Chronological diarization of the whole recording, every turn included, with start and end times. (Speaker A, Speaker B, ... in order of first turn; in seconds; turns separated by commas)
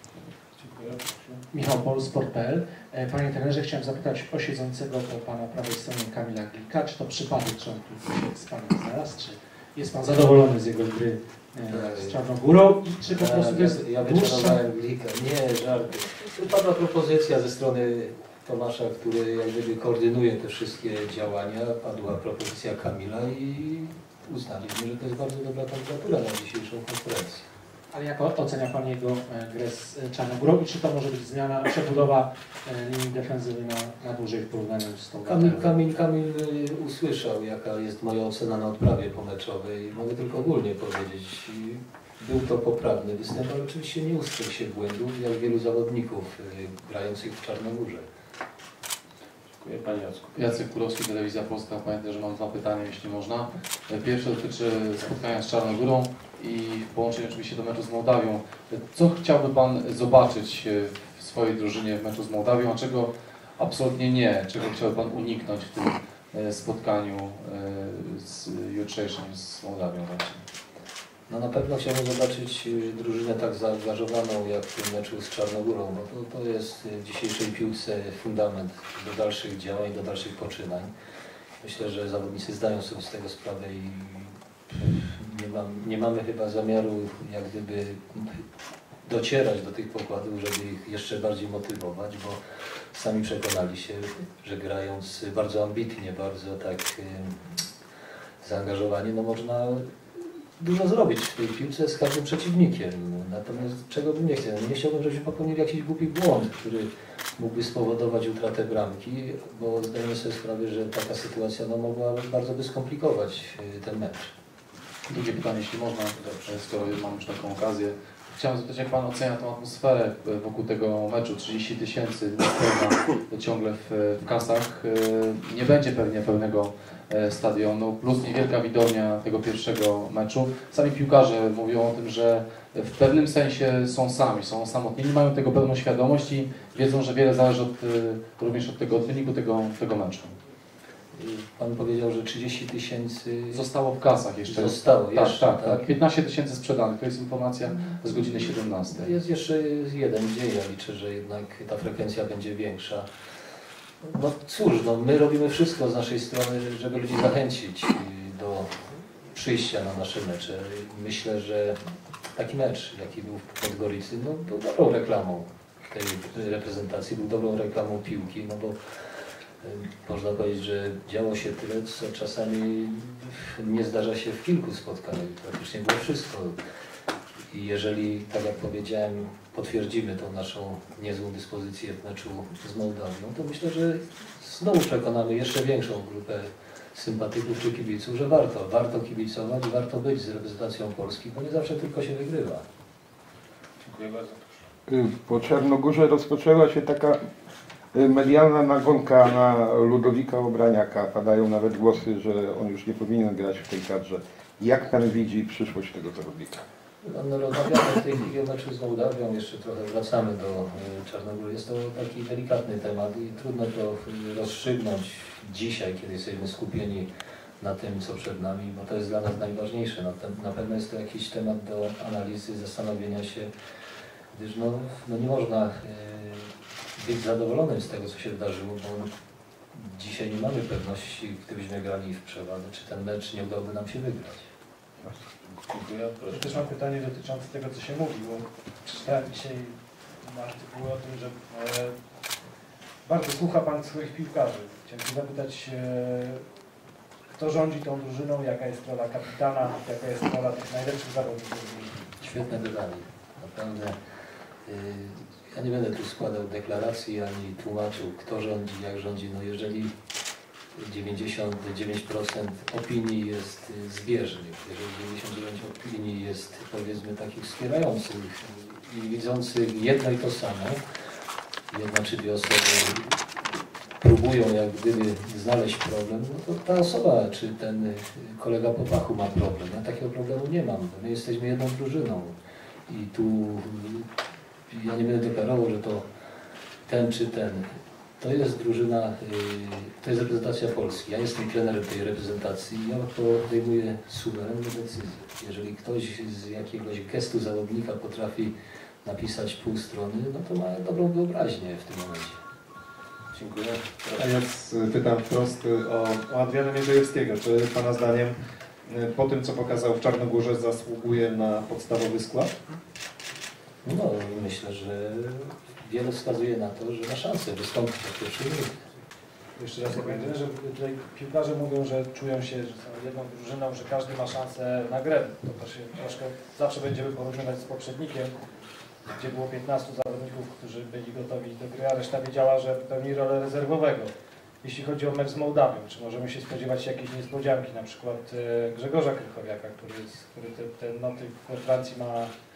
Speaker A: 0.5-1.4, Speaker B: 1.5-14.6, Speaker C: 11.7-12.2, Speaker C: 13.1-27.5, Speaker B: 27.9-35.7, Speaker C: 35.2-48.1, Speaker A: 49.6-50.3, Speaker D: 50.3-70.5, Speaker C: 71.3-80.9, Speaker C: 81.6-88.4, Speaker C: 89.0-92.4, Speaker C: 92.9-97.4, Speaker C: 98.4-99.9, Speaker C: 100.6-114.3, Speaker D: 115.1-140.3, Speaker C: 141.2-143.7, Speaker D: 143.5-149.2, Speaker C: 144.4-145.9, Speaker C: 147.9-153.1, Speaker C: 154.0-158.7, Speaker C: 159.3-161.8, Speaker C: 162.4-168.8, Speaker C: 169.6-176.6, Speaker C: 177.5-192.6, Speaker A: 193.8-194.6, Speaker E: 194.9-197.2, Speaker E: 197.9-206.6, Speaker C: 207.0-217.1, Speaker C: 217.6-223.5, Speaker C: 224.3-229.1, Speaker C: 229.7-234.5, Speaker A: 235.5-236.8, Speaker F: 236.3-239.7, Speaker F: 240.2-241.9, Speaker F: 243.1-246.4, Speaker F: 247.3-252.1, Speaker C: 252.2-254.0, Speaker C: 254.7-259.9, Speaker C: 260.8-270.8, Speaker C: 271.7-273.2, Speaker C: 274.0-282.4, Speaker C: 282.9-284.1, Speaker C: 284.7-286.1, Speaker C: 286.9-287.7, Speaker C: 288.2-302.4, Speaker A: 303.3-304.3, Speaker G: 304.2-308.3, Speaker G: 308.9-312.5, Speaker C: 313.9-318.9, Speaker F: 319.6-328.3, Speaker G: 319.9-320.3, Speaker F: 329.2-334.1, Speaker F: 334.6-342.3